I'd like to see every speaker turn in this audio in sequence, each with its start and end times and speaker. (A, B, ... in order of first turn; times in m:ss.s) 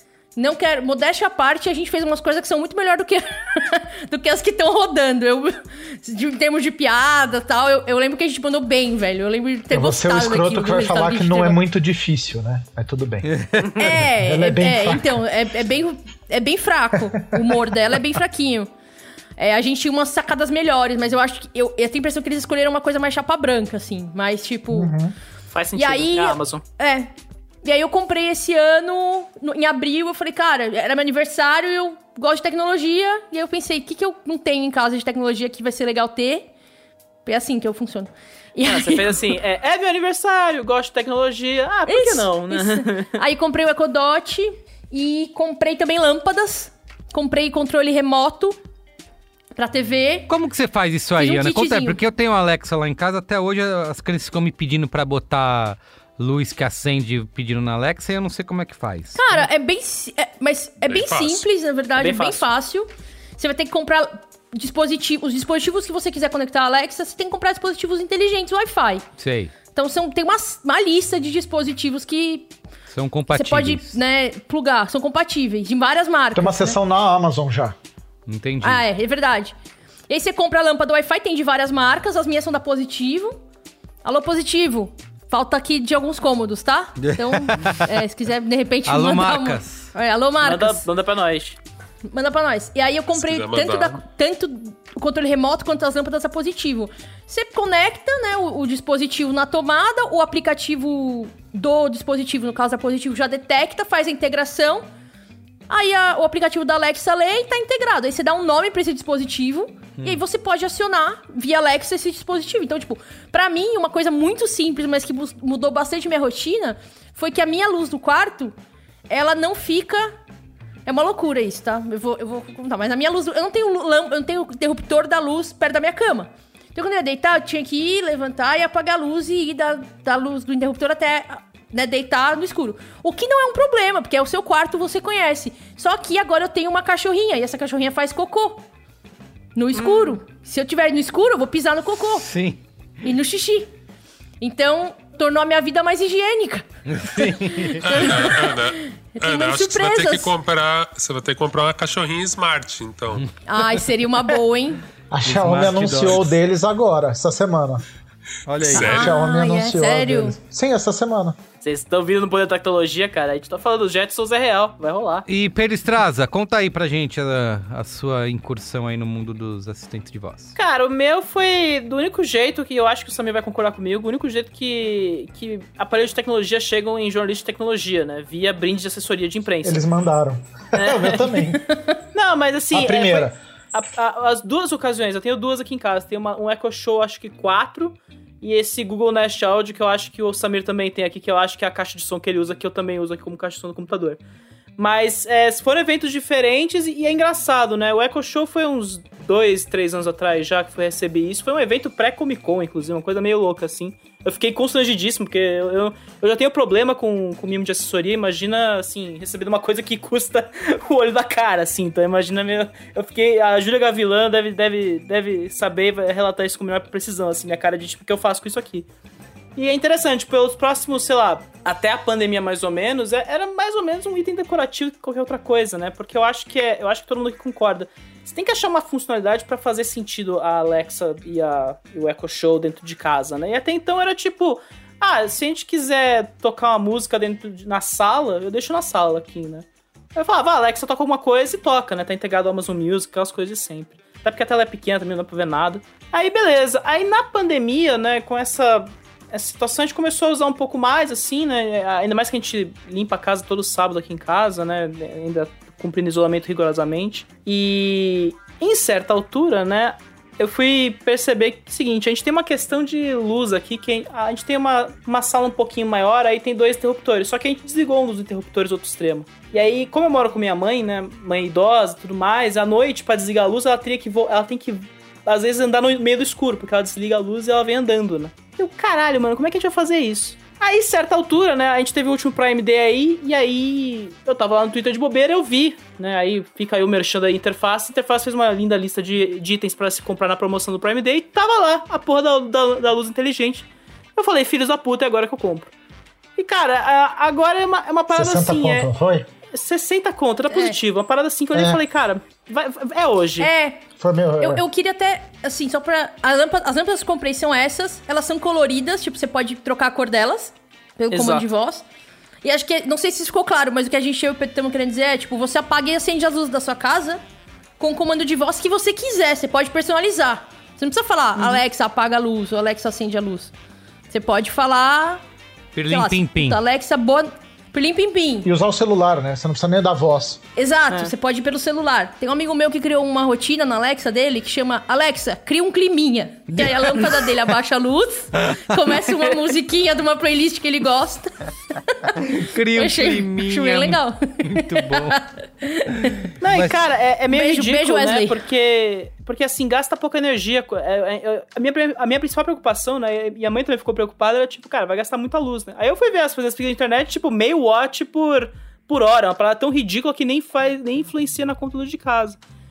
0:00.4-0:11.6 A
0:09.7-0:13.3 B
0:13.8-0:18.7 A
0:14.2-0:15.2 B
0:19.4-0:24.9 A
0:24.7-0:25.1 B
0:25.5-0:26.6 C
0:25.8-0:27.1 A
0:27.6-0:36.5 A
0:37.2-0:39.1 A
0:38.6-0:43.2 C
0:41.9-0:48.6 A
0:49.6-0:50.3 A
0:50.3-0:59.4 D
0:51.2-0:52.0 A
0:59.2-1:09.0 A
1:00.8-1:01.4 E
1:02.0-1:02.4 C
1:09.2-1:09.5 D
1:09.8-1:12.5 A
1:12.9-1:13.9 D
1:13.3-1:16.8 A
1:16.3-1:17.8 B
1:18.3-1:18.8 D
1:18.6-1:19.5 A
1:20.1-1:23.4 A
1:24.0-1:30.8 A
1:27.0-1:27.9 D
1:28.8-1:29.9 D
1:30.4-1:31.6 C
1:32.1-1:44.8 A
1:33.2-1:34.0 E
1:45.7-1:58.5 A
1:59.1-2:00.1 A
2:00.9-2:18.6 A
2:19.6-2:22.3 A
2:19.8-2:20.2 C
2:22.2-2:22.6 D
2:23.0-2:23.7 A
2:24.4-2:26.6 A
2:26.9-2:28.1 D
2:27.2-2:28.6 A
2:27.8-2:33.2 E
2:29.2-2:30.3 A
2:33.5-2:34.8 A
2:35.1-2:37.8 B
2:35.2-2:36.3 D
2:38.5-2:39.0 D
2:38.6-2:39.1 E
2:38.7-2:40.4 A
2:38.8-2:41.4 B
2:41.6-2:45.3 C
2:45.3-2:50.6 D
2:50.6-2:59.8 C
2:59.6-3:01.6 B
3:00.8-3:01.5 C
3:02.1-3:14.2 C
3:02.7-3:03.4 B
3:14.8-3:38.9 C
3:39.6-4:55.7 C
4:56.4-4:58.9 C
4:58.1-4:59.3 B
4:59.5-5:03.5 C
5:00.5-5:00.8 A
5:01.5-5:01.8 B
5:03.4-5:03.8 A
5:04.0-5:04.6 B
5:04.4-5:11.8 A
5:11.1-5:11.5 C
5:12.4-5:17.2 A
5:17.8-5:23.5 A
5:21.4-5:21.6 C
5:24.1-5:25.2 A
5:25.7-5:26.6 D
5:25.9-5:28.5 A
5:28.4-5:30.4 B
5:30.6-5:41.3 A
5:36.5-5:37.0 D
5:41.8-5:42.2 A
5:42.3-5:45.2 D
5:42.8-5:46.2 A
5:46.1-5:46.8 D
5:46.4-6:02.4 C
5:47.3-5:48.4 A